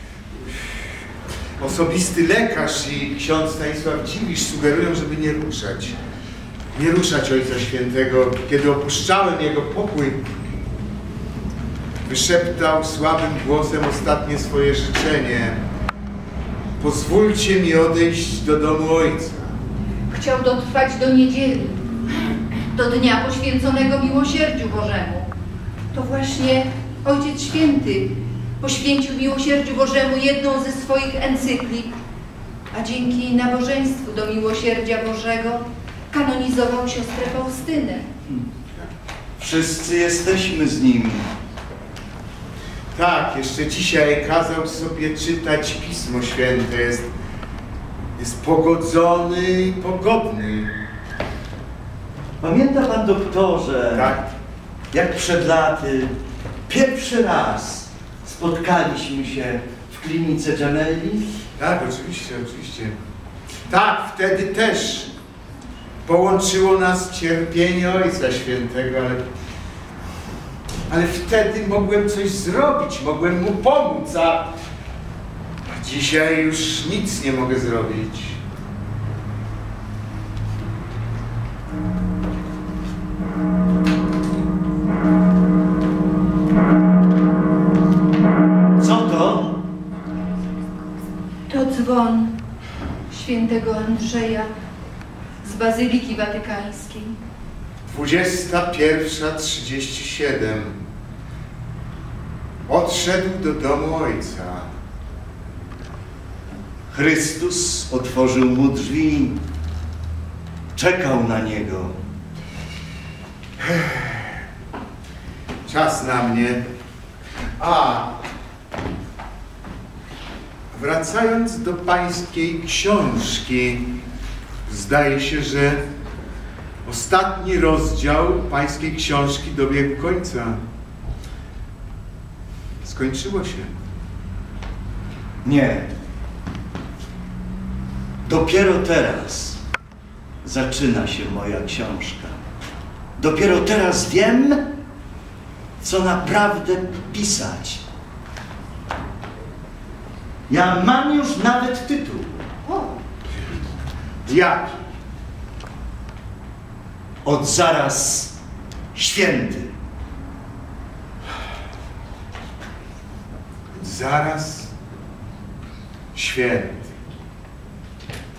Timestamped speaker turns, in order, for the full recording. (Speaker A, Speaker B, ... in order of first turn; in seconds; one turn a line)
Speaker A: 1.6-6.0
Speaker A: 6.7-10.2
Speaker A: 12.1-15.6
Speaker A: 16.8-19.6
Speaker B: 20.1-25.3
Speaker B: 25.9-31.9
Speaker B: 32.7-38.1
Speaker C: 39.4-41.3
Speaker A: 42.9-47.1
Speaker A: 48.2-50.7
Speaker C: 52.4-54.2
Speaker A: 53.9-54.3
Speaker C: 54.9-56.1
Speaker C: 56.7-61.2
Speaker A: 61.6-63.0
Speaker A: 63.7-65.1
Speaker A: 66.0-69.2
Speaker A: 70.9-74.5
Speaker A: 75.7-78.4
Speaker C: 88.8-89.6
Speaker B: 91.5-92.4
Speaker B: 93.1-94.5
Speaker B: 95.4-97.2
Speaker A: 97.9-100.8
Speaker A: 102.7-104.7
Speaker C: 106.9-109.4
Speaker C: 110.8-112.0
Speaker A: 113.6-114.3
Speaker A: 115.7-116.6
Speaker A: 117.6-118.2
Speaker A: 120.7-124.0
Speaker A: 124.7-125.8
Speaker A: 126.8-130.6
Speaker A: 132.8-133.8
Speaker C: 135.4-135.9
Speaker C: 138.2-139.6
Speaker C: 140.4-142.4
Speaker C: 143.2-144.7
Speaker C: 145.8-147.8
Speaker C: 150.5-152.5
Speaker B: 152.7-153.0
Speaker A: 154.3-154.8
Speaker C: 157.2-158.4
Speaker C: 158.9-159.7
Speaker A: 163.7-164.7
Speaker A: 166.1-166.9